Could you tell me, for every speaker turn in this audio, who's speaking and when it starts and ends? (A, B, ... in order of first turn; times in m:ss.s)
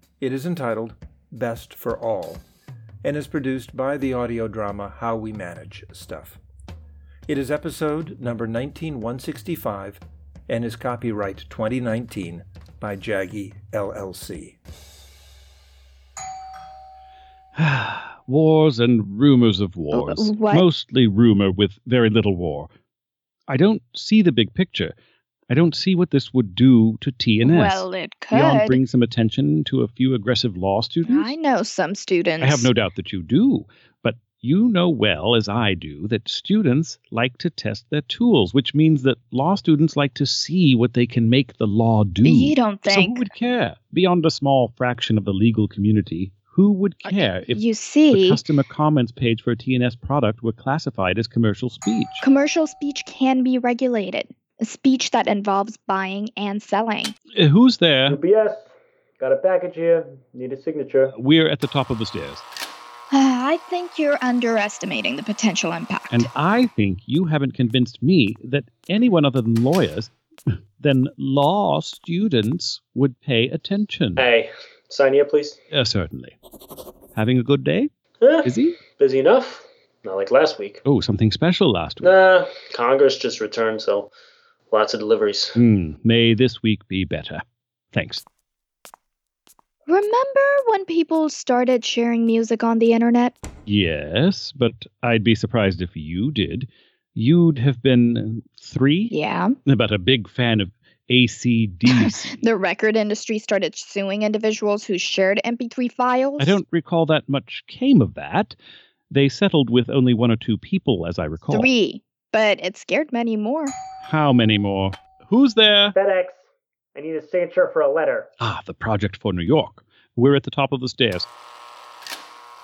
0:00.2-0:02.4 A
0:03.0-0:06.4 A
0:07.3-0:14.6 A
0:17.6-0:22.7 B
0:19.9-0:20.7 C
0:23.5-0:25.0 B
0:25.5-0:31.3 B
0:27.4-0:28.8 C
0:31.1-0:32.7 C
0:32.4-0:52.3 B
0:42.2-0:43.3 C
0:47.0-0:48.4 C
0:52.2-0:57.2 C
0:57.3-0:58.2 B
0:58.1-1:01.1 D
1:01.1-1:02.4 B
1:03.1-1:06.3 C
1:06.1-1:10.1 B
1:10.8-1:14.3 B
1:14.2-1:15.6 D
1:15.7-1:16.4 B
1:17.2-1:17.9 B
1:18.2-1:20.8 D
1:18.4-1:18.8 B
1:20.8-1:22.1 B
1:22.0-1:24.1 D
1:24.7-1:25.6 D
1:25.6-1:28.2 B
1:29.9-1:33.4 C
1:33.7-1:42.5 B
1:39.1-1:39.6 C
1:41.9-1:46.6 C
1:46.4-1:48.6 B
1:49.1-1:51.7 B
1:51.5-1:53.7 C
1:54.0-1:56.0 B
1:55.9-1:56.4 D
1:57.0-1:58.3 D
1:58.4-2:01.3 B